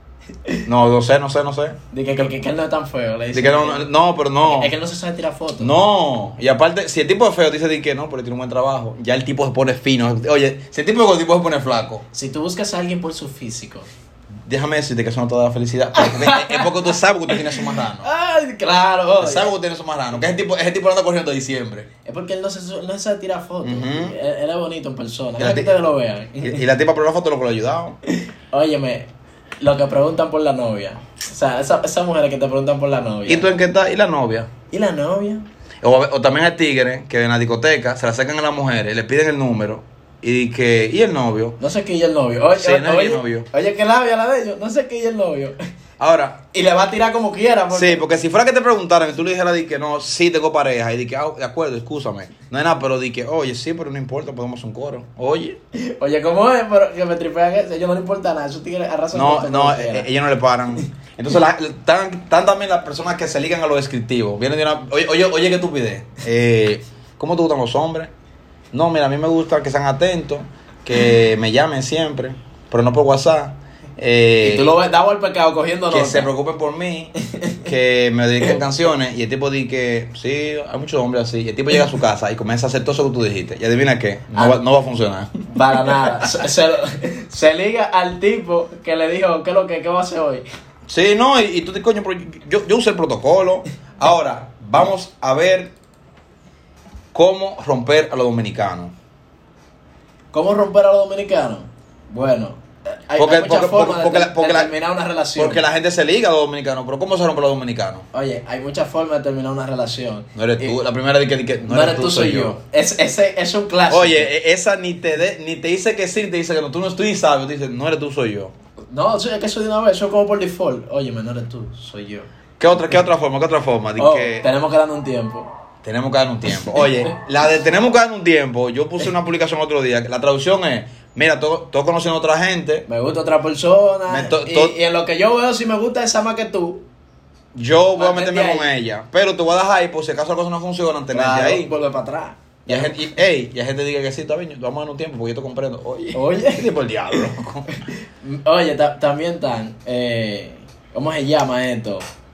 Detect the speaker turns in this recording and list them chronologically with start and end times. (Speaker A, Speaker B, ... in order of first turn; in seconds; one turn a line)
Speaker A: 0.7-1.8
Speaker B: 1.9-3.9
Speaker A: 3.3-4.7
Speaker B: 4.4-5.7
Speaker A: 5.6-12.0
Speaker B: 12.1-13.9
Speaker A: 14.5-18.1
Speaker B: 16.0-16.7
Speaker B: 17.4-19.5
Speaker A: 19.2-21.9
Speaker B: 22.0-26.6
Speaker A: 23.6-24.1
Speaker A: 25.4-25.7
Speaker A: 26.4-28.0
Speaker B: 28.5-29.1
Speaker B: 29.6-33.5
Speaker A: 33.2-34.5
Speaker B: 34.7-35.5
Speaker A: 35.8-41.6
Speaker B: 41.6-45.6
Speaker A: 42.5-43.5
Speaker A: 46.0-46.4
Speaker B: 46.5-48.1
Speaker A: 47.7-55.6
Speaker B: 55.8-60.1
Speaker A: 59.1-68.1
Speaker A: 68.7-74.7
Speaker B: 74.4-76.3
Speaker A: 75.9-86.3
Speaker B: 77.3-77.6
Speaker B: 84.3-84.6
Speaker B: 85.5-90.4
Speaker A: 90.9-95.7
Speaker A: 97.1-98.9
Speaker B: 100.3-105.6
Speaker A: 103.2-104.7
Speaker A: 105.3-108.0
Speaker B: 108.1-110.8
Speaker A: 110.3-112.5
Speaker B: 111.7-114.3
Speaker A: 113.9-118.5
Speaker B: 118.9-122.3
Speaker A: 122.6-124.5
Speaker B: 124.0-125.5
Speaker A: 125.8-132.8
Speaker B: 126.6-127.1
Speaker B: 132.9-136.8
Speaker A: 134.1-134.7
Speaker A: 137.5-141.7
Speaker B: 137.9-138.7
Speaker B: 141.1-143.1
Speaker A: 142.7-147.7
Speaker B: 146.1-147.2
Speaker B: 147.8-152.0